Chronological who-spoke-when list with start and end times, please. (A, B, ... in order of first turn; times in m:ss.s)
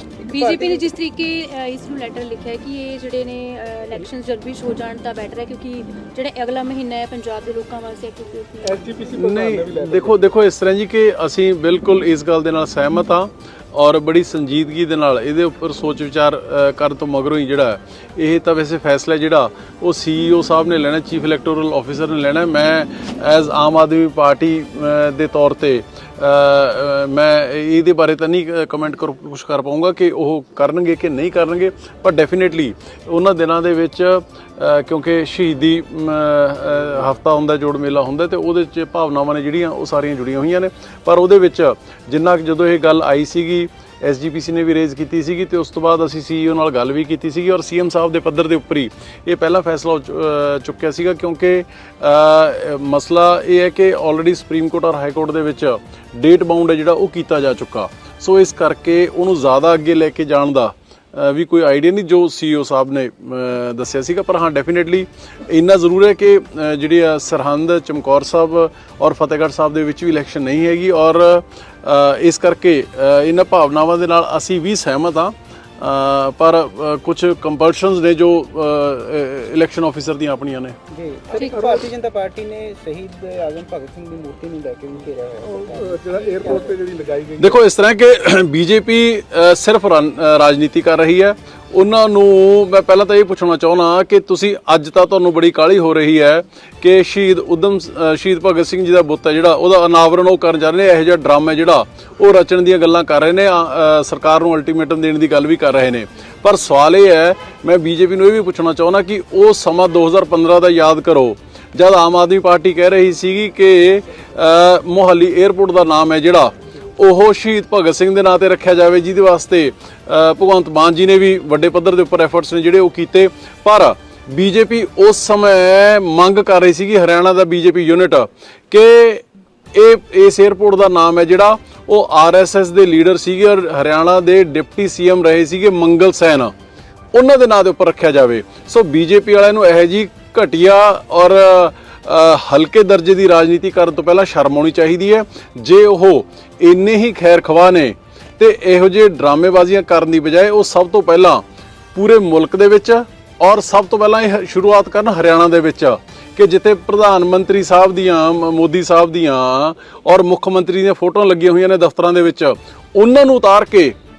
0:00.2-0:08.8 A
0:00.4-0:00.8 B
0:08.6-0:10.3 C
0:09.1-1:20.8 D
1:20.9-1:26.8 B
1:21.3-1:21.7 A
1:21.5-1:21.8 C
1:25.4-1:27.6 C
1:27.4-2:09.2 D
2:09.7-2:16.5 D
2:17.1-2:31.4 D
2:31.9-2:43.9 D